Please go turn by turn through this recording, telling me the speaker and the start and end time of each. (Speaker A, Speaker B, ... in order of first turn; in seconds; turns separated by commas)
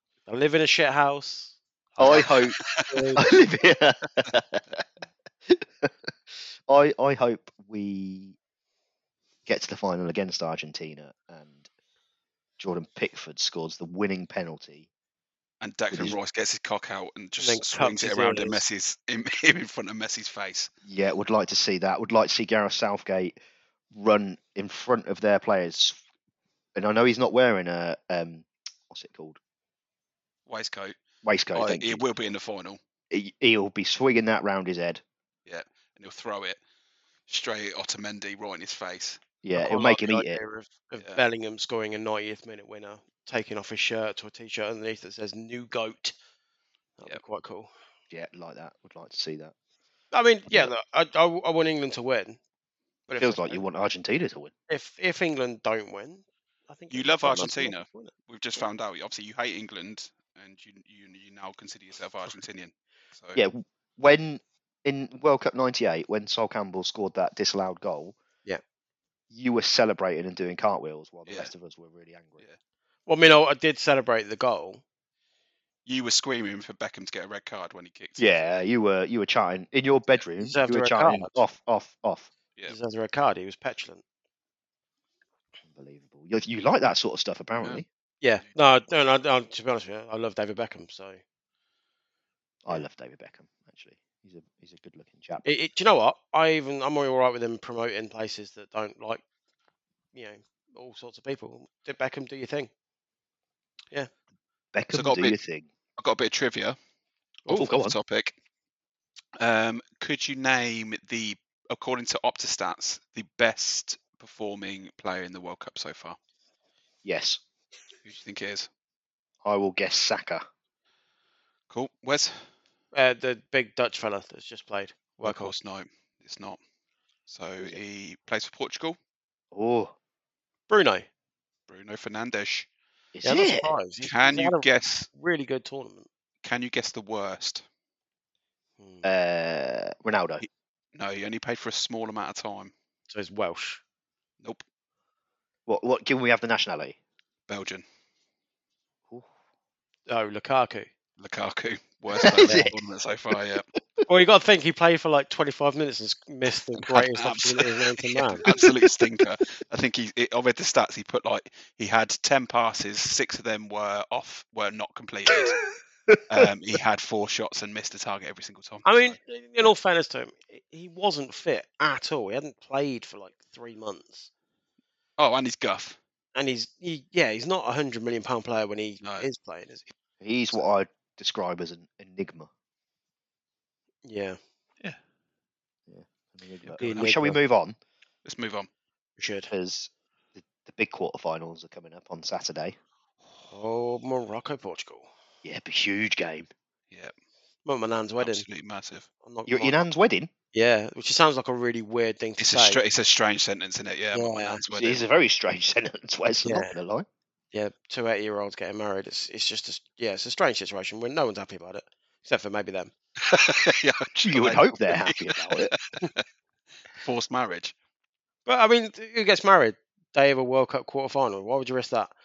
Speaker A: 0.2-3.2, Speaker B: 2.0-2.6, Speaker C: 2.0-3.1, Speaker B: 3.1-4.8, Speaker B: 5.5-6.1, Speaker B: 6.7-8.3, Speaker B: 9.4-11.7, Speaker B: 12.6-14.9, Speaker C: 15.6-20.7, Speaker B: 15.9-16.2, Speaker A: 17.4-18.6, Speaker B: 20.8-23.3, Speaker B: 23.9-26.0, Speaker B: 26.7-29.4, Speaker C: 30.4-31.0, Speaker B: 31.2-32.0, Speaker C: 31.5-32.8, Speaker B: 33.1-35.0, Speaker C: 35.5-36.6, Speaker C: 37.3-39.2, Speaker B: 39.4-40.4, Speaker A: 39.5-46.1, Speaker A: 47.0-47.7, Speaker B: 48.1-49.5, Speaker A: 50.1-52.4, Speaker A: 53.1-53.6, Speaker B: 53.2-54.5, Speaker A: 54.7-58.1, Speaker C: 56.9-63.4, Speaker B: 63.3-68.2, Speaker B: 69.3-72.4, Speaker A: 73.1-74.8, Speaker C: 75.8-78.4, Speaker B: 78.2-82.3, Speaker A: 80.4-81.4, Speaker A: 82.7-84.0, Speaker B: 85.7-87.8, Speaker A: 88.2-91.2, Speaker B: 92.6-95.5, Speaker A: 95.4-99.2, Speaker A: 100.1-102.7, Speaker B: 104.7-105.7, Speaker C: 104.9-105.4, Speaker C: 106.0-106.8, Speaker C: 107.5-108.3, Speaker B: 107.5-107.9, Speaker C: 109.4-116.2, Speaker B: 117.0-117.4, Speaker C: 118.0-118.7, Speaker B: 119.4-120.4, Speaker C: 121.7-122.5, Speaker A: 122.9-125.5, Speaker C: 125.2-126.6, Speaker C: 127.3-129.0, Speaker B: 129.5-129.9, Speaker A: 130.7-131.1, Speaker C: 131.7-132.7, Speaker B: 133.1-133.7, Speaker A: 133.2-136.1, Speaker C: 134.0-135.1, Speaker C: 136.4-137.6, Speaker A: 138.8-139.1, Speaker B: 139.0-140.4, Speaker C: 140.9-142.7, Speaker A: 143.1-143.8, Speaker B: 145.7-147.0, Speaker C: 147.5-147.8, Speaker A: 150.1-150.9, Speaker C: 151.2-153.7, Speaker B: 152.1-152.7, Speaker A: 154.1-158.4, Speaker C: 156.8-157.9, Speaker C: 158.4-165.6, Speaker B: 158.4-159.0, Speaker B: 166.1-166.5, Speaker C: 166.3-169.2, Speaker A: 168.8-174.3, Speaker C: 175.2-176.0, Speaker A: 176.3-179.9, Speaker C: 179.0-179.3, Speaker B: 180.2-182.5, Speaker A: 184.0-184.4, Speaker B: 185.9-187.8, Speaker C: 186.6-187.1, Speaker A: 186.8-187.4, Speaker C: 188.2-188.7, Speaker A: 189.2-189.5, Speaker B: 189.5-192.8, Speaker A: 193.5-195.1, Speaker B: 195.4-196.5, Speaker A: 197.7-198.4, Speaker C: 198.2-199.1, Speaker A: 199.2-199.8, Speaker B: 199.4-200.3, Speaker A: 200.5-202.8, Speaker C: 202.4-205.0, Speaker A: 204.1-204.6, Speaker B: 204.7-207.1, Speaker A: 206.4-206.8, Speaker A: 207.5-212.9, Speaker C: 213.2-216.2, Speaker B: 214.2-215.7, Speaker C: 216.9-217.7, Speaker A: 218.4-222.1